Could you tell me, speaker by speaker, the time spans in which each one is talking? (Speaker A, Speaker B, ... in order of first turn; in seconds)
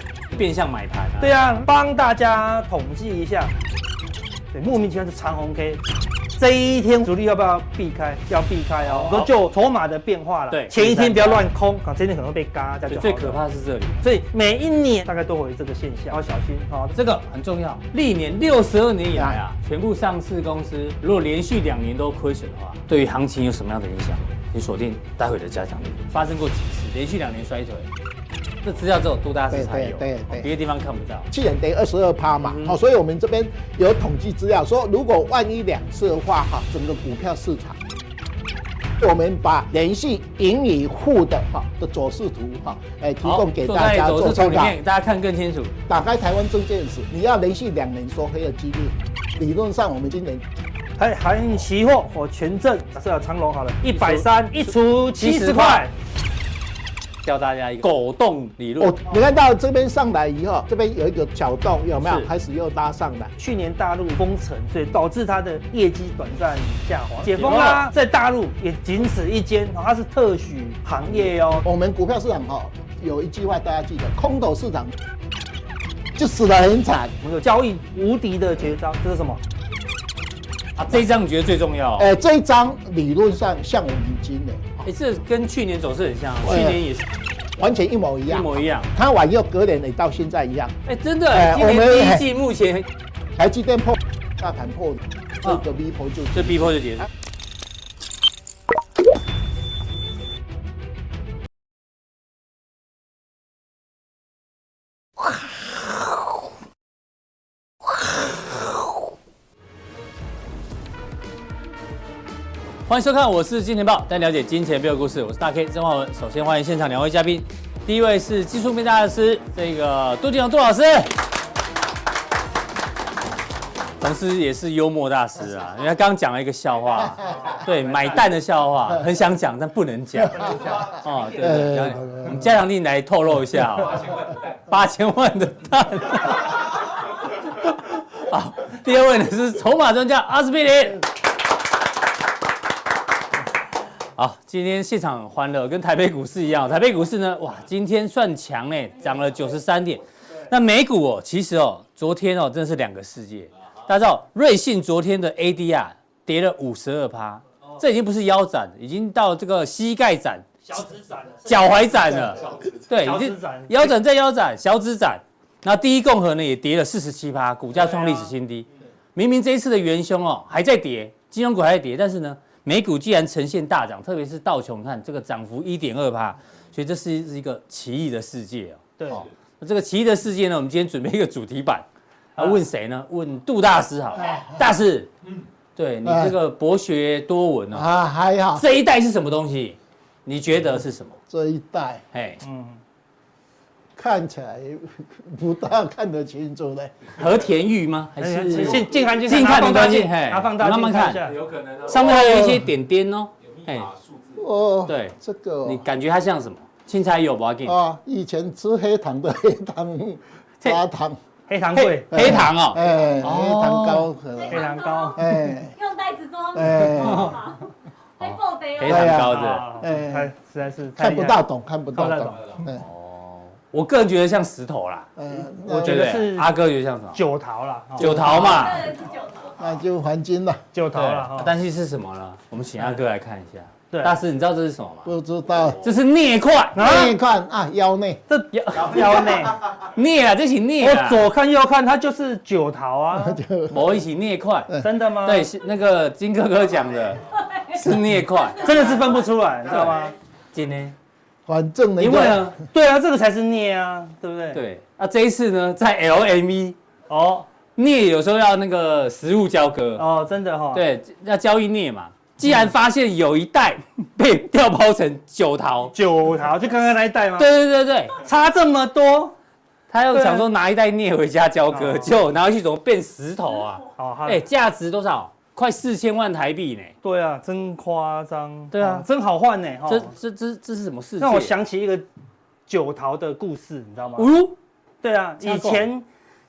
Speaker A: 0.3-1.3, 8.8-9.3, 10.5-11.4, 12.9-14.0, 16.9-27.9, 28.6-31.3, 32.4-32.8, 43.2-45.7, 53.9-54.3, 55.2-55.9, 57.2-59.0, 62.0-62.3, 67.3-67.8, 80.8-82.1, 84.8-87.0, 88.3-88.9, 90.9-92.9, 96.3-97.1, 112.9-121.2, 124.0-136.8, 137.5-141.0, 144.2-160.5, 161.5-181.8, 182.4-185.1, 185.8-187.9, 188.5-191.2, 192.1-192.4, 197.2-203.9, 204.9-207.8, 211.7-214.1, 218.2-219.7, 222.7-225.1, 225.8-227.2, 228.0-228.9, 230.9-235.1, 235.8-236.8, 238.5-241.2, 243.7-248.7, 250.5-250.9, 252.0-252.6, 254.5-256.8, 257.8-260.0, 260.7-265.9, 267.4-268.1, 269.9-276.9, 278.7-279.1, 279.9-281.6, 284.2-284.6, 285.4-285.8
Speaker B: 1.2-3.5, 4.5-5.8, 6.3-13.4, 14.0-16.9, 51.0-55.9, 63.4-71.7, 77.2-79.4, 160.6-161.9, 163.0-163.9, 167.7-168.3, 179.0-179.2, 192.4-192.8, 198.2-201.4, 211.5-212.2, 214.5-215.2, 219.1-221.4, 221.9-222.4, 225.6-226.5, 227.1-228.7, 230.7-231.5, 233.9-234.2, 236.7-237.2, 238.3-239.6, 240.8-243.4, 244.8-245.5, 248.6-250.1, 252.6-254.6, 257.1-257.5, 260.0-260.8, 265.9-267.5, 268.2-269.3, 270.1-270.5, 271.7-272.2, 274.0-274.5, 277.0-280.1, 281.2-282.0, 282.7-284.3, 285.0-286.0
Speaker C: 19.1-19.4, 29.5-30.5, 31.3-37.8, 39.0-44.8, 45.9-50.4, 58.8-63.3, 71.6-74.9, 76.2-77.1, 82.0-84.9, 86.4-86.8, 87.6-90.8, 91.3-92.2, 93.3-96.7, 131.4-132.5, 184.3-184.6, 186.0-186.3, 187.7-188.7, 191.3-192.0, 193.9-197.1, 202.2-202.6, 204.3-205.8, 207.7-211.2, 212.1-215.8, 216.5-217.4, 218.8-220.3, 221.0-222.8, 225.2-226.0, 229.6-230.6, 235.0-235.8, 236.8-238.2, 243.1-243.9, 251.5-252.5
Speaker D: 214.3-217.7, 218.2-219.2, 228.3-229.6